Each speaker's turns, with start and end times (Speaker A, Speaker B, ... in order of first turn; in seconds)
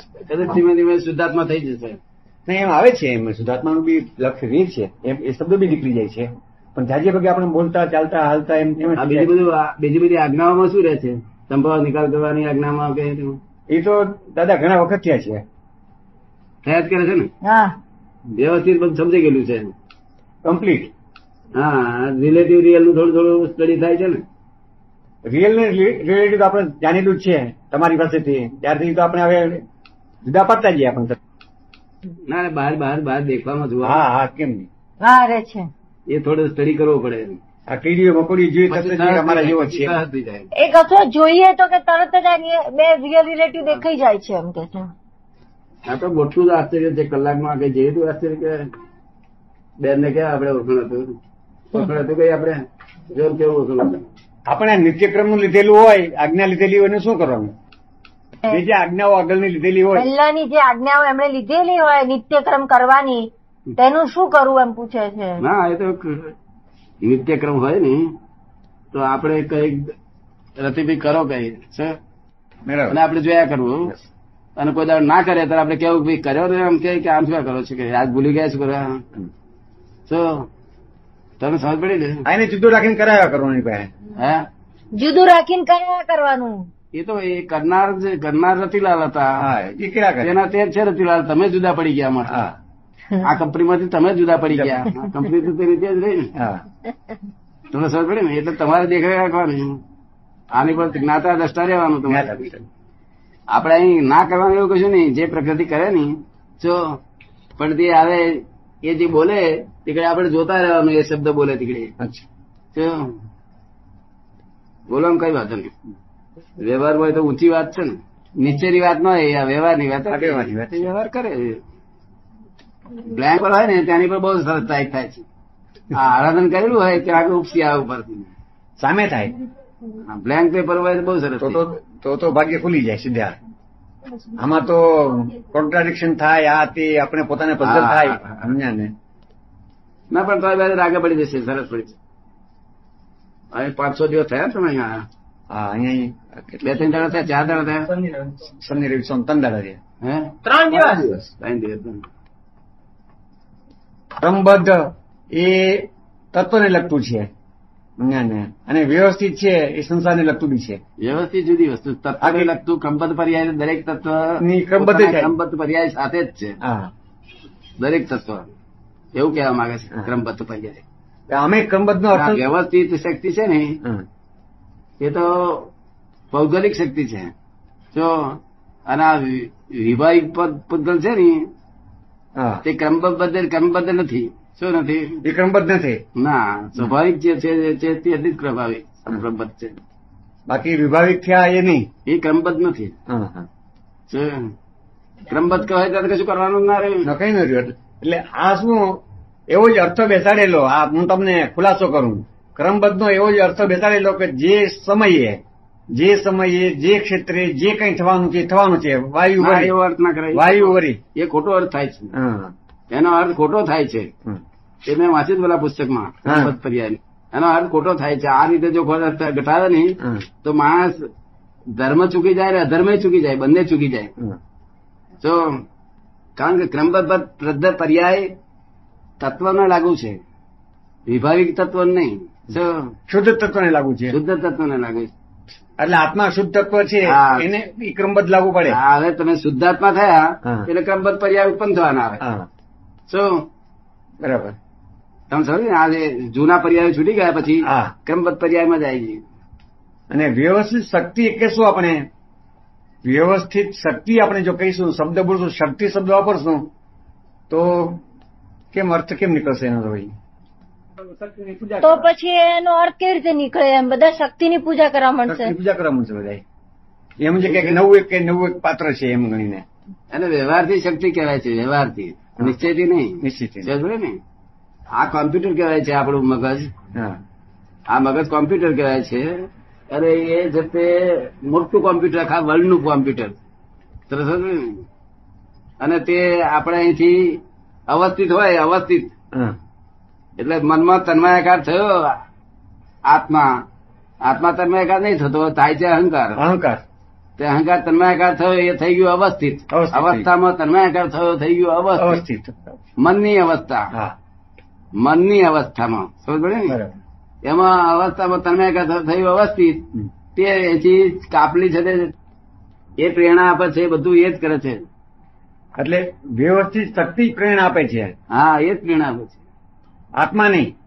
Speaker A: 0.2-2.0, 9.0-13.4, 16.6-17.3, 18.3-19.8, 21.6-24.2, 32.2-34.0, 36.1-37.4, 38.7-40.5, 45.9-48.7, 49.8-51.2, 51.7-54.0, 65.4-66.3, 67.0-68.2, 68.9-69.9, 70.6-72.0, 72.9-74.0, 74.6-79.0, 80.1-80.5, 81.4-82.2, 84.2-84.5, 86.9-89.4, 90.2-92.4, 93.2-96.3, 97.7-99.8, 100.5-102.5, 103.5-107.0, 107.6-111.9, 112.7-113.2, 114.9-115.7, 116.6-121.6, 122.9-125.2, 125.9-128.3, 130.0-131.6, 137.6-138.5, 140.1-141.9, 143.5-145.1, 146.6-147.9, 150.0-152.1, 161.0-166.6, 167.8-168.5, 169.1-170.8, 172.1-173.8, 175.0-175.7, 176.3-177.3, 177.9-181.5, 182.6-185.2, 186.2-189.8, 192.1-192.9, 194.1-194.5, 195.3-197.1, 209.4-212.1, 212.9-214.1, 214.8-221.1, 221.7-224.1, 225.2-225.6, 226.3-228.3, 229.2-230.2, 231.1-232.9, 234.1-235.1, 237.0-237.4, 238.7-242.2, 243.1-243.5, 245.3-249.2, 267.5-267.8, 270.1-274.2, 274.9-276.7, 277.9-283.4, 284.1-284.9, 285.8-289.1, 290.4-292.2, 293.1-293.6, 294.2-296.4, 297.4-302.2, 303.0-303.9, 305.0-306.8, 307.4-312.1, 313.0-314.9, 318.3-319.4
Speaker B: 2.5-9.3, 13.7-15.4, 20.4-20.9, 25.2-29.6, 30.2-31.2, 33.8-34.7, 37.7-40.0, 54.5-57.5, 58.5-60.1, 72.6-73.0, 82.2-83.9, 89.4-90.4, 92.2-92.5, 94.5-94.9, 96.3-96.6, 102.0-102.6, 112.0-112.2, 120.1-120.9, 128.8-129.3, 131.4-133.4, 134.3-138.9, 145.5-146.8, 148.3-149.8, 154.2-157.3, 158.0-160.8, 162.2-162.5, 164.4-165.3, 166.6-166.9, 171.3-172.5, 182.3-182.6, 185.2-186.0, 190.5-191.9, 193.1-193.5, 197.0-205.4, 205.9-209.8, 210.3-211.0, 212.1-212.5, 216.2-216.5, 220.0-220.2, 233.1-234.2, 235.8-238.8, 240.4-240.7, 242.2-242.5, 244.2-244.6, 247.6-247.9, 250.1-252.1, 253.0-256.7, 257.5-258.0, 258.7-260.1, 261.0-262.1, 265.2-266.4, 267.2-269.6, 273.2-273.7, 276.9-277.2, 296.4-296.8, 299.7-300.3, 302.0-302.8, 306.7-307.0, 315.8-318.1, 320.2-320.7
Speaker C: 17.4-17.8, 35.0-35.7, 40.5-44.9, 59.9-63.3, 63.8-65.4, 84.9-86.7, 261.8-265.6